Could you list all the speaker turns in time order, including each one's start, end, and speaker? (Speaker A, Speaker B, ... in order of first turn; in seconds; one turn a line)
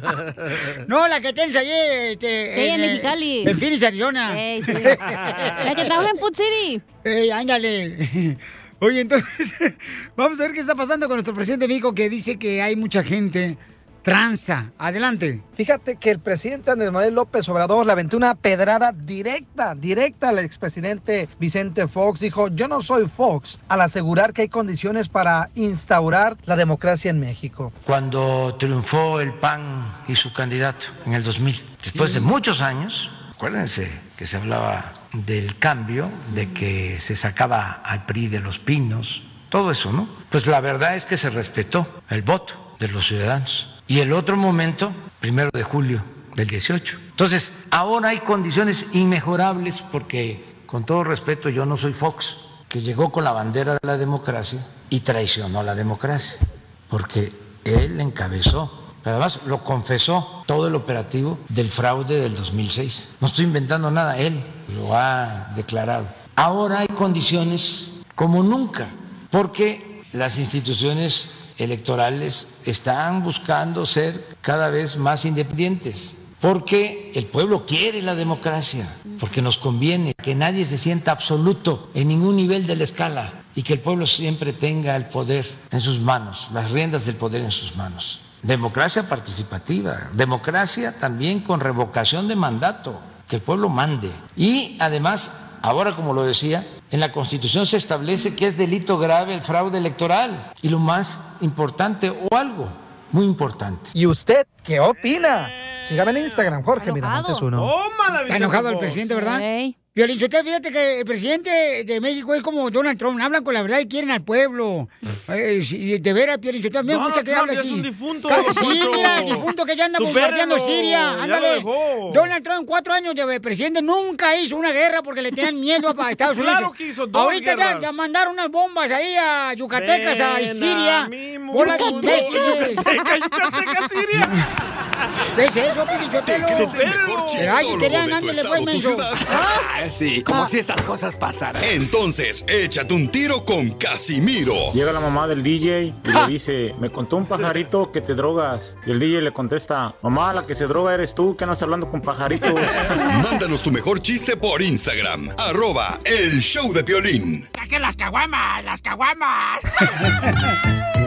Speaker A: 0.8-5.8
Speaker B: 2.5-3.6
Speaker B: 4.3-5.0
Speaker B: 5.6-6.8
Speaker A: 7.0-15.4
Speaker C: 15.6-27.7
Speaker D: 27.8-103.9
Speaker C: 103.9-107.7
Speaker E: 105.1-106.5
Speaker B: 106.8-107.5
Speaker E: 107.5-109.0
Speaker A: 108.3-132.8
Speaker B: 109.1-109.7
Speaker E: 116.8-122.3
Speaker B: 119.0-119.3
Speaker E: 126.3-128.0
Speaker E: 129.7-134.5
Speaker B: 131.6-132.9
Speaker A: 135.3-136.8
Speaker F: 136.2-139.3
Speaker E: 136.5-137.8
Speaker A: 137.3-139.1
Speaker B: 139.3-139.7
Speaker F: 141.6-144.8
Speaker G: 144.7-152.8
Speaker E: 147.2-147.6
Speaker F: 153.0-157.5